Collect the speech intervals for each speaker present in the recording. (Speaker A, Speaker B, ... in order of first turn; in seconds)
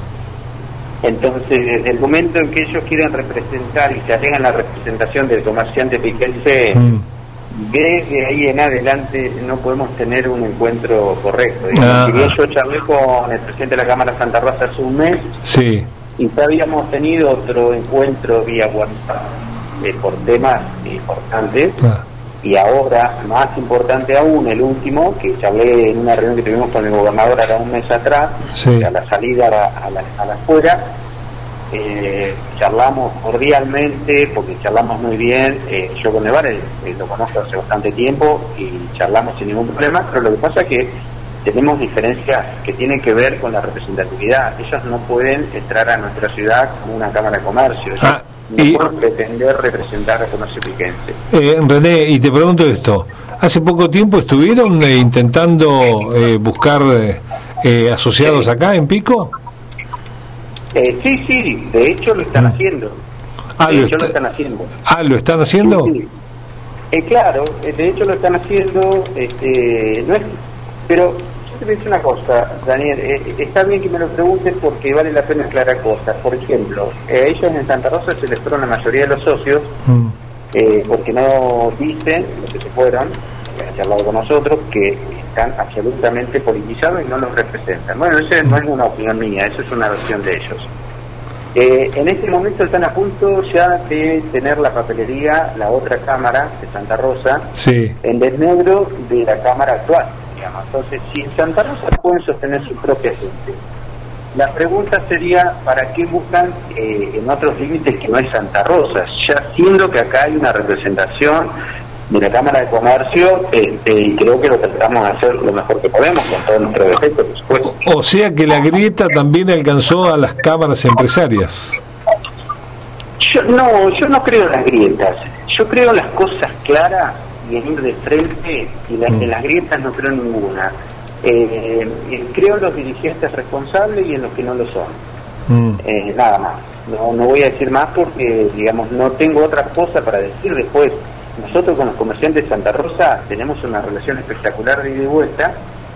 Speaker A: 1.0-6.9, 7.5-15.3, 16.2-21.8, 22.4-30.9, 31.7-51.2, 58.2-58.5, 60.7-63.0, 63.6-64.7, 65.6-66.1, 66.9-70.4, 70.9-79.8, 80.5-90.7, 91.5-103.6, 104.3-111.5, 112.1-117.7, 123.2-135.0, 135.8-145.6
Speaker B: 6.8-7.0, 11.7-12.3, 15.4-15.8, 28.5-28.9, 48.0-48.9, 51.3-59.3, 63.6-64.1, 64.9-65.9, 79.8-80.1, 97.5-97.9, 117.6-121.8, 135.5-135.8